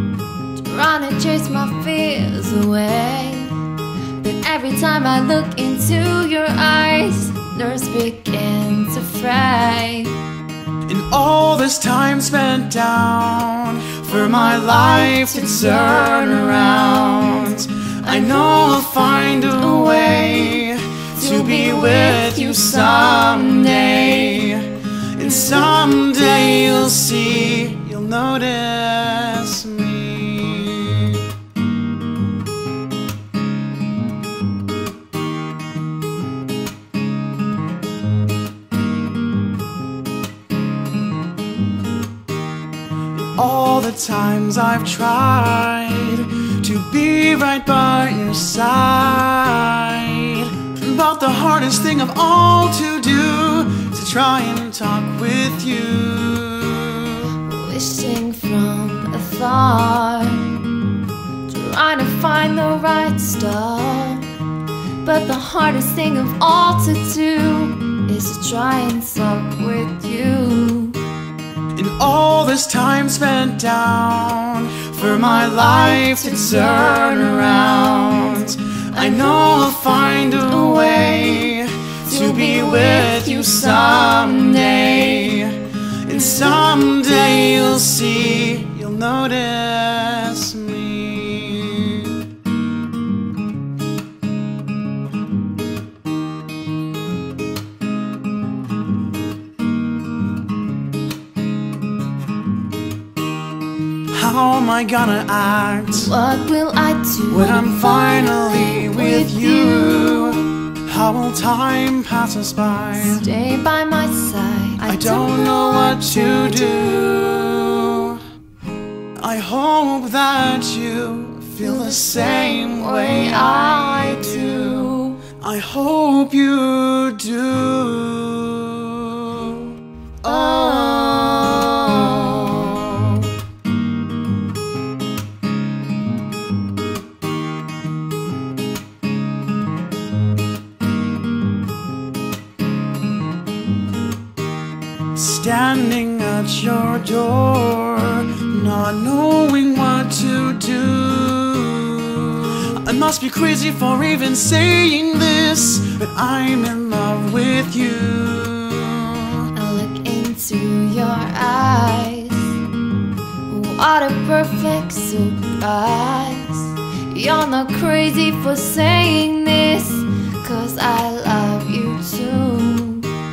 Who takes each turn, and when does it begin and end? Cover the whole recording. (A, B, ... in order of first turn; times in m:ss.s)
0:00.6-0:03.6 A
0:04.2-0:10.2 A
0:10.9-0:31.3 B
0:15.7-0:16.2 A
0:18.1-0:18.7 A
0:19.6-0:24.1 A
0:43.1-0:57.3 B
0:57.4-1:00.5 A
1:01.5-1:04.3 A
1:05.0-1:11.0 A
1:11.8-1:32.2 B
1:15.9-1:17.3 A
1:20.5-1:21.6 A
1:22.1-1:24.9 A
1:44.1-1:46.1 B
1:45.9-1:50.4 A
1:47.3-1:53.3 B
1:52.9-1:56.9 A
1:54.8-1:58.2 B
1:59.2-2:13.3 B
2:01.6-2:05.2 A
2:10.3-2:12.7 A
2:25.2-2:39.5 B
2:39.6-2:42.6 A
2:43.5-2:53.1 A